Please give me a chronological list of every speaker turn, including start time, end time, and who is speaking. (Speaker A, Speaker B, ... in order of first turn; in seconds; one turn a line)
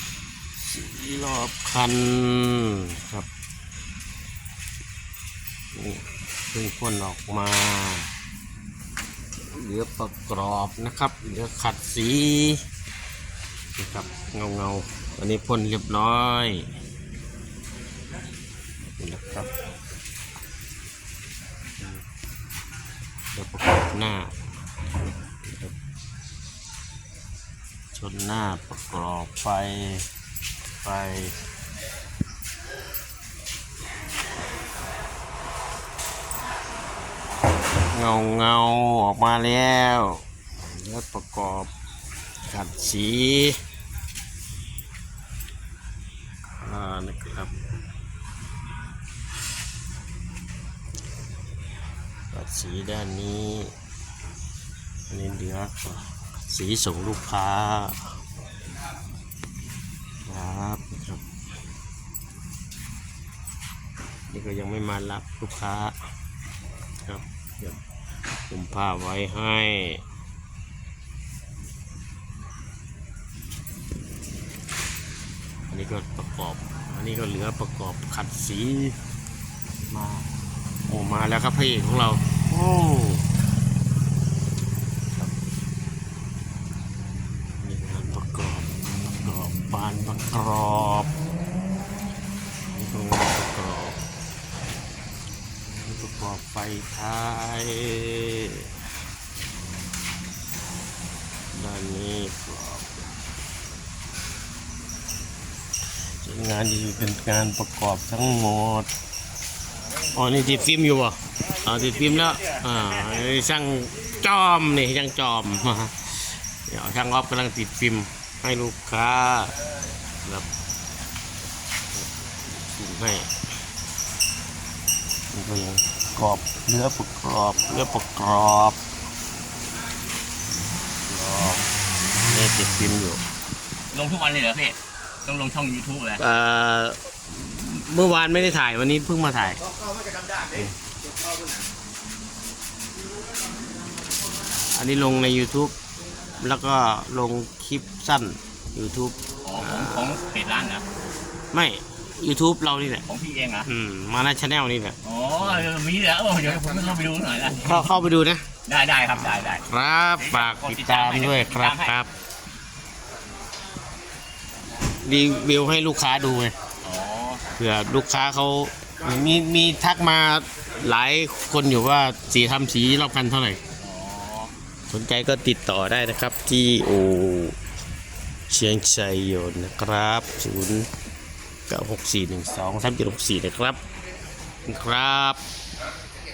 Speaker A: 0.6-3.3
Speaker A: 5.7-8.1
Speaker A: 9.5-12.6
Speaker A: 13.8-16.7
Speaker A: 19.0-19.6
Speaker A: 23.3-24.3
Speaker A: 25.4-25.7
Speaker A: 27.9-30.1
Speaker A: 30.8-31.4
Speaker A: 37.9-41.7
Speaker A: 42.5-43.6
Speaker A: 46.6-47.5
Speaker A: 52.3-53.7
Speaker A: 55.1-58.0
Speaker A: 60.3-61.2
Speaker A: 64.3-65.9
Speaker A: 67.0-67.8
Speaker A: 68.5-70.0
Speaker A: 75.7-79.0
Speaker A: 79.9-80.3
Speaker A: 80.9-83.2
Speaker A: 87.6-91.1
Speaker A: 92.7-94.0
Speaker A: 95.8-98.7
Speaker A: 101.5-103.1
Speaker A: 106.2-108.9
Speaker A: 110.0-119.5
Speaker A: 120.2-120.5
Speaker A: 122.0-123.3
Speaker A: 125.3-128.8
Speaker A: 131.1-131.7
Speaker A: 132.2-133.2
Speaker B: 133.9-136.2
Speaker A: 136.2-139.7
Speaker A: 144.7-145.7
Speaker A: 146.4-150.1
Speaker B: 149.4-150.8
Speaker A: 151.5-153.1
Speaker B: 153.1-153.7
Speaker A: 153.7-155.6
Speaker B: 155.0-158.0
Speaker A: 157.4-158.5
Speaker B: 158.7-159.6
Speaker A: 159.4-162.1
Speaker B: 160.2-162.0
Speaker A: 165.0-166.5
Speaker B: 166.8-167.4
Speaker A: 167.5-173.6
Speaker B: 173.8-174.5
Speaker A: 174.9-177.6
Speaker A: 178.5-180.9
Speaker A: 181.7-183.8
Speaker A: 184.7-185.4